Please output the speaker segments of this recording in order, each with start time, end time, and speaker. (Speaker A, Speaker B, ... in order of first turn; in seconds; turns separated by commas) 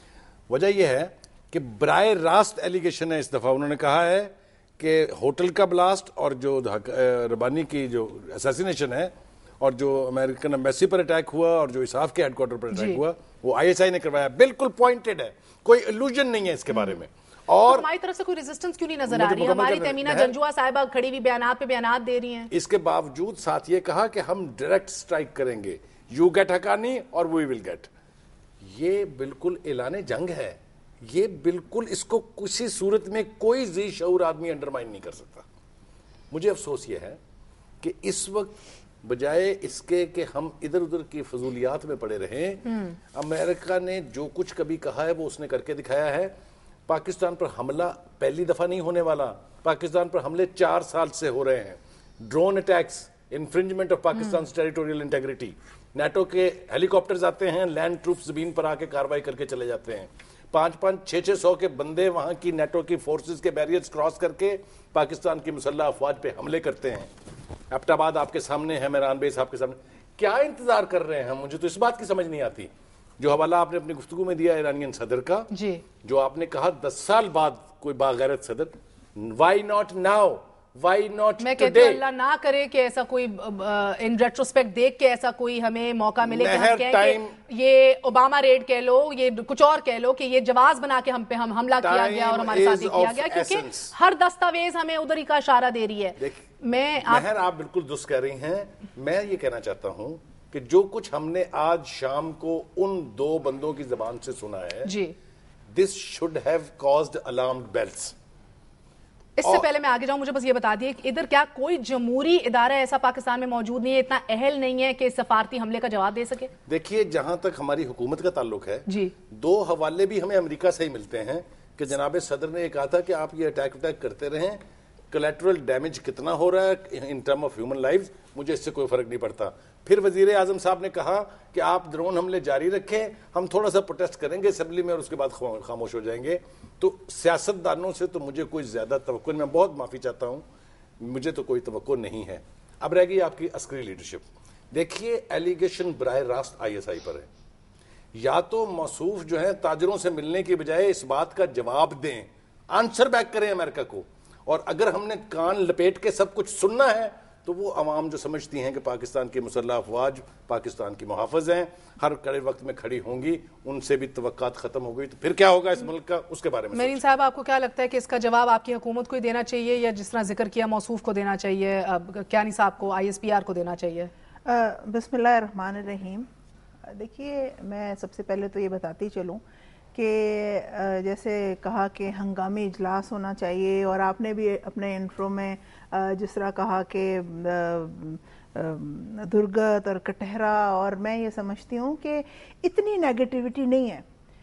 Speaker A: 0.5-17.9, Speaker B: 12.7-13.0, Speaker B: 17.7-22.5, Speaker A: 19.1-20.3, Speaker A: 22.5-27.9, Speaker A: 28.6-35.5, Speaker A: 36.3-37.2, Speaker A: 37.8-46.4, Speaker B: 42.7-43.0, Speaker A: 46.9-67.1, Speaker A: 67.7-75.5, Speaker B: 75.5-75.8, Speaker A: 76.0-82.0, Speaker B: 81.4-97.3, Speaker A: 86.2-87.4, Speaker A: 91.8-93.9, Speaker A: 96.2-96.5, Speaker A: 97.0-104.9, Speaker B: 104.8-105.1, Speaker A: 105.7-108.1, Speaker B: 109.4-116.5, Speaker A: 116.7-140.4, Speaker B: 118.9-119.1, Speaker A: 141.0-147.3, Speaker A: 148.1-167.0, Speaker B: 166.8-174.1, Speaker C: 174.5-176.3, Speaker C: 176.9-179.4, Speaker C: 179.9-194.1